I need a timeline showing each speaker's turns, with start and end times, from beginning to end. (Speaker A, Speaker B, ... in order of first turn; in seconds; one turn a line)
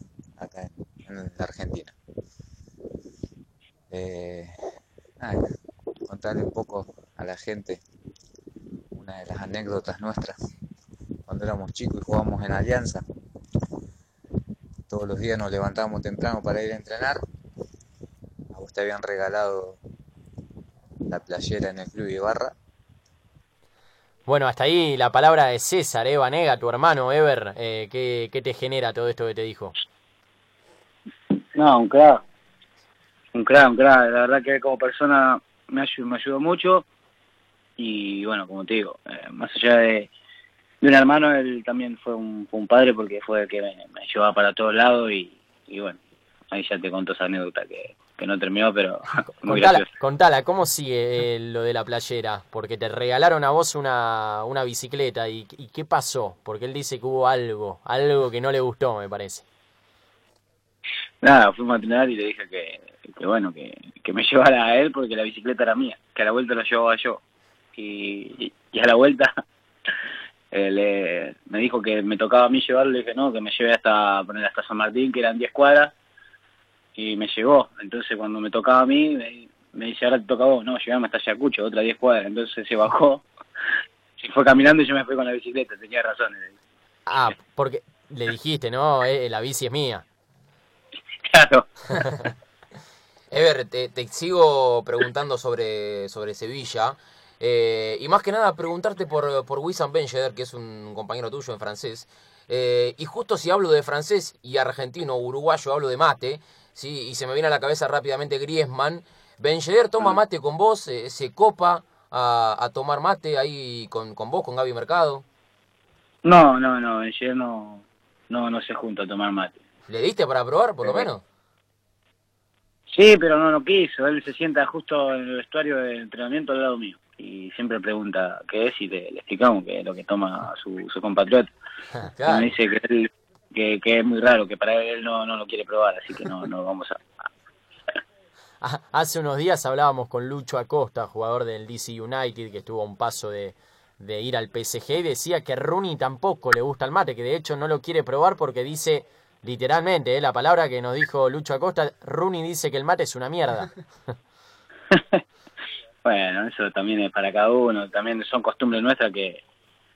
Speaker A: 0.4-1.9
Speaker A: 3.9-4.5
Speaker A: 6.1-7.8
Speaker A: 8.9-10.3
Speaker A: 11.3-13.0
Speaker A: 14.9-17.2
Speaker A: 18.5-19.8
Speaker A: 21.1-22.5
Speaker B: 24.3-29.7
Speaker C: 31.5-32.2
Speaker C: 33.3-36.9
Speaker C: 37.8-40.1
Speaker C: 40.8-46.0
Speaker C: 46.5-49.9
Speaker B: 49.4-59.4
Speaker C: 61.2-67.2
Speaker C: 67.8-69.3
Speaker C: 70.5-75.9
Speaker C: 77.0-83.2
Speaker C: 84.2-86.5
Speaker B: 87.1-90.0
Speaker C: 91.3-91.7
Speaker D: 93.3-115.2
Speaker C: 116.2-119.5
Speaker D: 119.9-121.2
Speaker C: 120.8-121.1
Speaker C: 122.9-131.5
Speaker B: 132.2-132.5
Speaker C: 132.2-137.0
Speaker B: 138.6-153.7
Speaker C: 154.9-155.2
Speaker C: 156.0-159.4